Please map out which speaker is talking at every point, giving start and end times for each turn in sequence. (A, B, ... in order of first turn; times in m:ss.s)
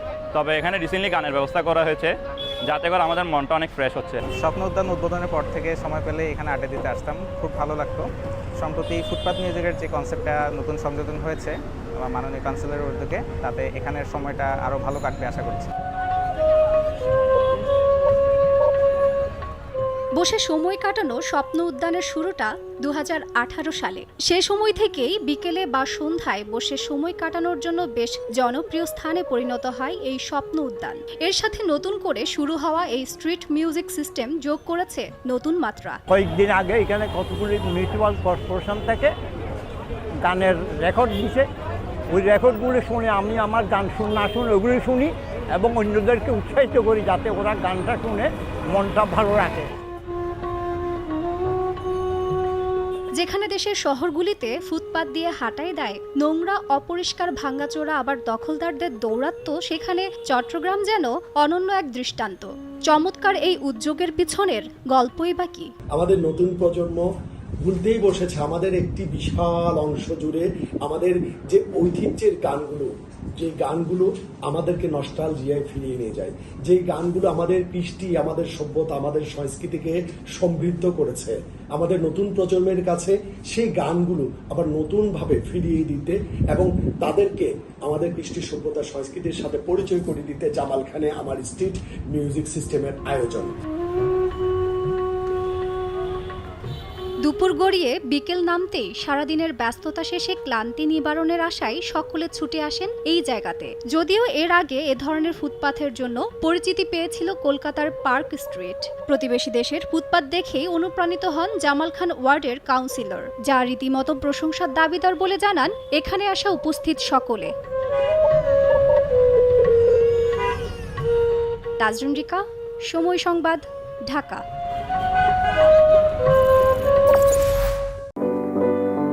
0:00.3-0:02.1 A
0:02.6-0:04.2 A
0:04.3-0:15.7 B
0:20.2-0:36.0 C
0:36.1-0:39.1 D
0:40.2-0:41.5 D
0:42.1-0:49.7 D
0:53.2-1:05.7 C
1:05.9-1:07.1 E
1:07.6-1:33.6 E
1:37.2-1:57.5 C
2:01.8-2:04.4 C